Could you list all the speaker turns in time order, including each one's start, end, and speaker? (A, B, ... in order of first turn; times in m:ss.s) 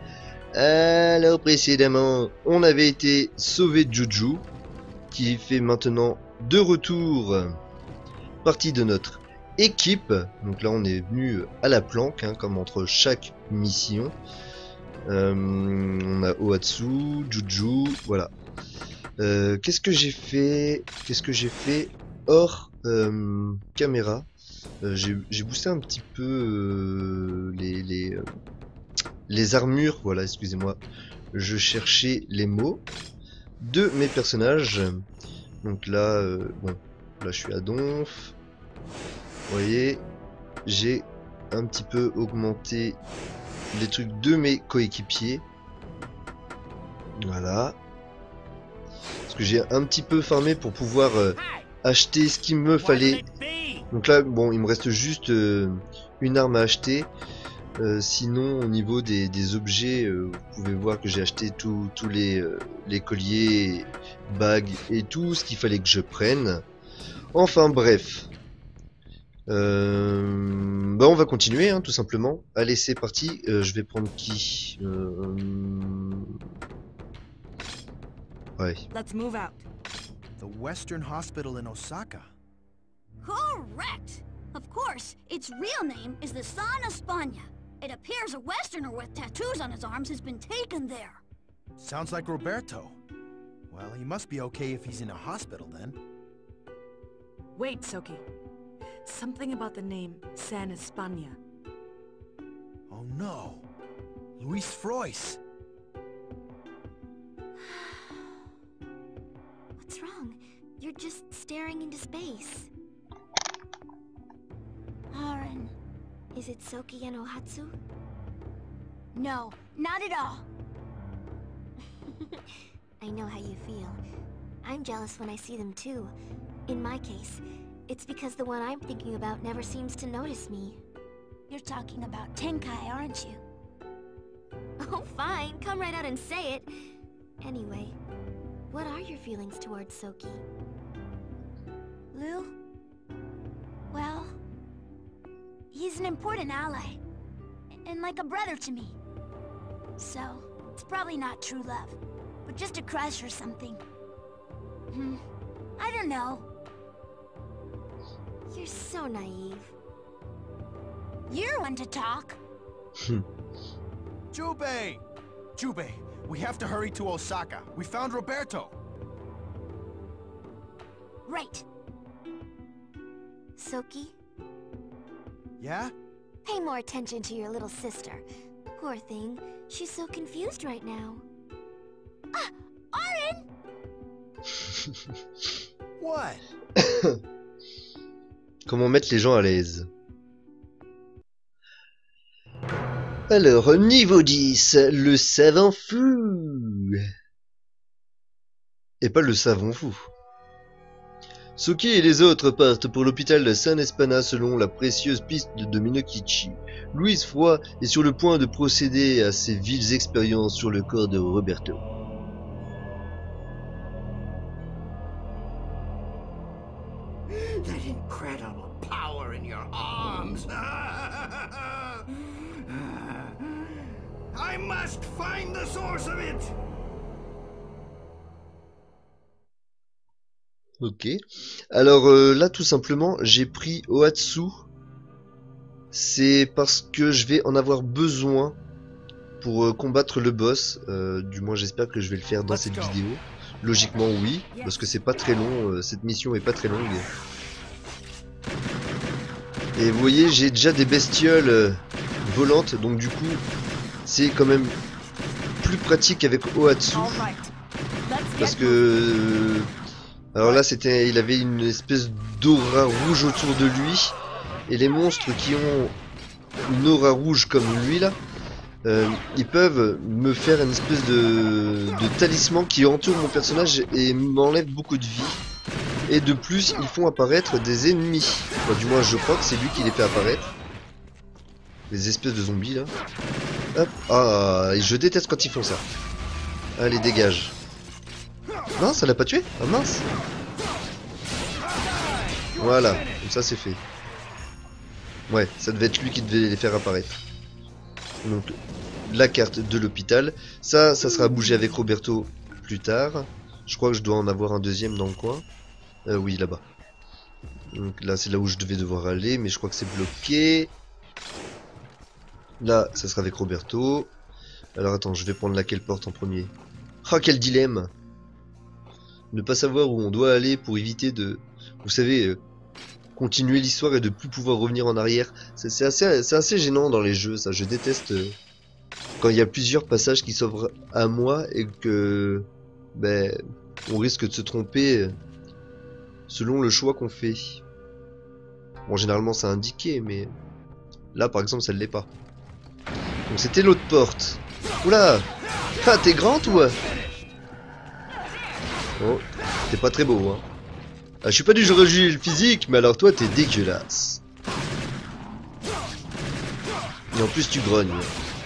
0:00.5-0:04.4 A
0:05.1-0:07.6 A
0:08.4-0:14.2 A
0:15.1-0:18.3 A
0:19.2-0:24.3 A
0:24.8-0:28.2 A
0:29.3-0:30.8 A
0:31.3-0:32.8 A
0:33.6-0:35.0 A
0:35.6-0:38.3 A
0:39.5-0:40.0 A
0:40.7-0:43.0 A
0:43.7-0:45.4 A
0:47.2-0:47.8 A
0:49.3-0:53.2 A
0:52.8-0:53.9 B
0:53.9-0:57.1 A
0:57.8-1:06.6 A
1:07.3-1:08.3 A
1:09.5-1:16.4 A
1:18.6-1:18.8 A
1:18.9-1:19.6 C
1:20.4-1:22.3 B
1:23.2-1:31.2 D
1:31.8-1:33.0 B
1:33.7-1:36.0 B
1:37.5-1:38.3 C
1:39.0-1:41.4 C
1:42.9-1:43.6 B
1:44.4-1:45.4 B
1:49.8-1:52.7 E
1:55.1-1:55.7 D
1:56.3-1:57.7 E
1:59.1-2:00.5 D
2:03.0-2:04.0 E
2:04.6-2:06.1 E
2:06.7-2:10.8 E
2:11.5-2:13.4 D
2:14.8-2:16.7 E
2:17.4-2:18.0 E
2:18.7-2:20.4 E
2:22.1-2:22.5 D
2:23.9-2:24.4 D
2:25.7-2:27.0 D
2:27.7-2:29.0 D
2:30.0-2:33.8 D
2:34.9-2:35.2 D
2:35.8-2:36.5 D
2:38.5-2:39.7 E
2:41.3-2:42.4 D
2:43.0-2:43.2 A
2:44.3-2:45.0 B
2:45.6-2:48.8 B
2:51.3-2:51.6 D
2:53.6-2:54.2 E
2:55.6-2:55.9 B
2:56.4-2:58.2 E
2:58.8-3:01.2 E
3:02.4-3:03.4 D
3:06.0-3:06.4 B
3:06.8-3:07.2 A
3:08.7-3:09.9 A
3:13.3-3:17.1 A
3:19.0-3:20.0 A
3:21.6-3:31.8 A
3:37.3-3:42.0 B
3:42.7-3:43.4 B
3:44.3-3:46.5 B
3:50.8-3:51.2 A
3:51.7-3:54.6 A
3:55.9-3:58.6 A
3:59.4-4:07.1 A
4:02.5-4:03.0 B
4:09.8-4:13.4 A
4:14.0-4:14.8 A
4:15.6-4:17.3 A
4:16.9-4:17.5 C
4:18.1-4:18.9 C
4:18.4-4:19.7 A
4:20.3-4:24.2 A
4:24.7-4:25.9 A
4:26.6-4:28.2 A
4:28.8-4:35.4 A
4:36.1-4:40.5 A
4:41.9-4:42.9 A
4:43.8-4:45.8 A
4:46.8-4:47.6 A
4:48.8-4:50.1 A
4:52.6-4:53.8 A
4:55.3-4:57.2 A
4:58.2-4:58.5 A
4:59.1-5:05.4 A
5:06.1-5:06.6 A
5:07.7-5:10.7 A
5:12.6-5:14.1 A
5:14.8-5:16.5 A
5:17.0-5:17.9 A
5:19.3-5:22.4 A
5:23.2-5:28.4 A
5:29.2-5:35.2 A
5:36.3-5:37.6 A
5:38.9-5:40.3 A
5:41.1-5:42.1 A
5:43.3-5:45.3 A
5:45.8-5:46.8 A
5:49.0-5:50.4 A
5:51.2-5:54.2 A
5:57.1-5:58.1 A